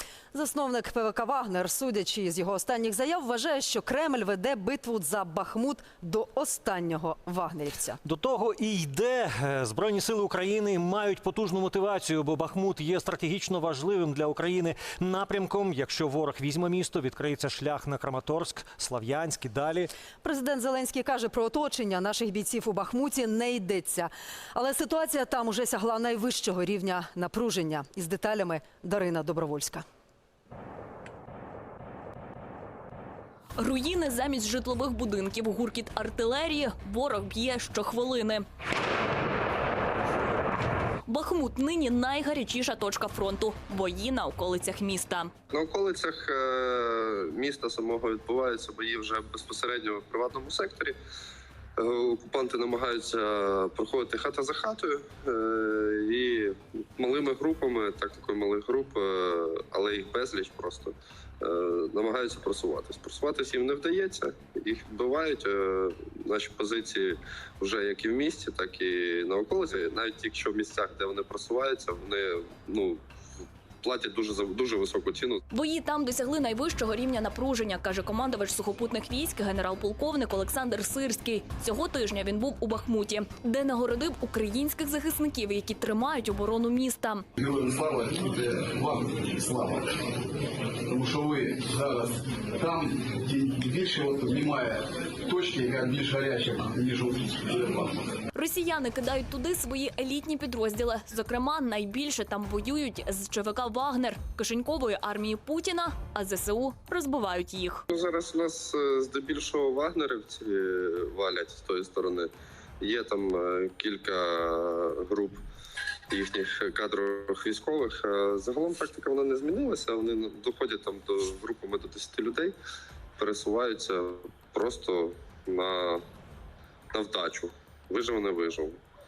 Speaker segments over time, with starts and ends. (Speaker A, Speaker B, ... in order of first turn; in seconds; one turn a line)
Speaker A: 0.3-8.0
Speaker B: 8.0-19.9
Speaker A: 20.2-29.8
Speaker C: 33.6-38.4
Speaker C: 41.1-45.3
Speaker D: 45.5-51.0
Speaker D: 51.8-73.0
Speaker D: 73.8-75.4
Speaker C: 75.5-87.2
Speaker E: 87.3-90.0
Speaker E: 90.9-98.1
Speaker C: 98.3-107.8
Speaker D: 107.9-115.4
Speaker D: 116.1-122.5
Speaker D: 123.2-126.0
Speaker D: 126.9-128.8